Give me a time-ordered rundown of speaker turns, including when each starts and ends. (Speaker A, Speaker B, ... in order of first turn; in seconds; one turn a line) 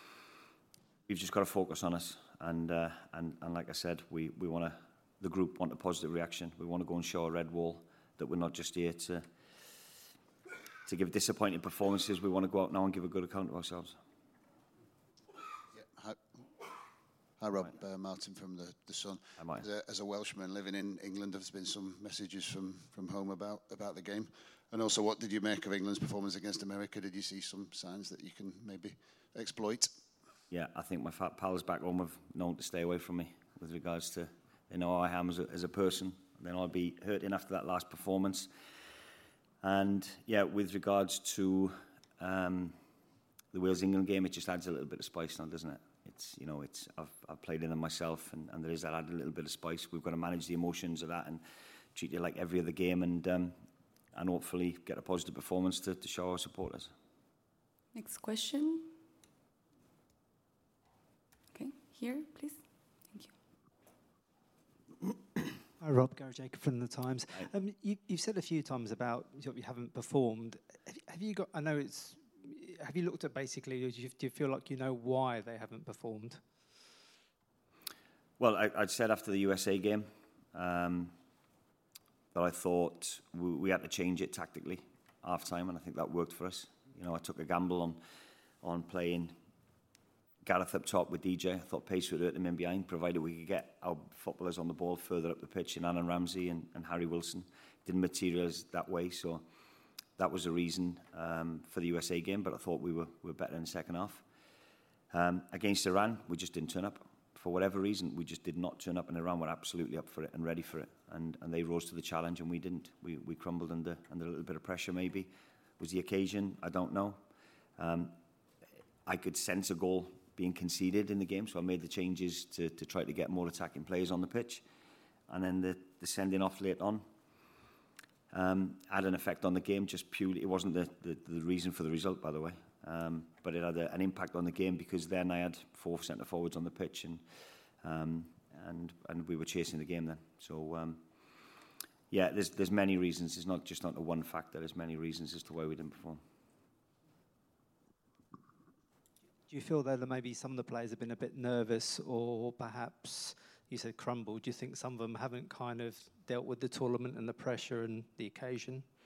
Speaker A: 1.1-9.2
Speaker A: 10.9-14.0
Speaker B: 15.7-16.2
Speaker B: 17.4-29.9
Speaker A: 19.4-19.7
Speaker A: 30.5-38.5
Speaker A: 39.6-42.8
Speaker A: 43.5-51.4
Speaker A: 52.0-53.5
Speaker A: 54.1-56.9
Speaker C: 57.9-58.9
Speaker C: 61.5-63.3
Speaker D: 65.8-76.7
Speaker A: 78.4-81.1
Speaker A: 82.3-88.0
Speaker A: 88.6-89.3
Speaker A: 90.5-99.4
Speaker A: 100.2-104.2
Speaker A: 105.1-117.2
Speaker A: 117.8-118.1
Speaker A: 119.1-124.6
Speaker A: 125.3-127.0
Speaker A: 128.3-137.2
Speaker A: 137.8-141.0
Speaker A: 142.1-146.2
Speaker D: 149.5-158.8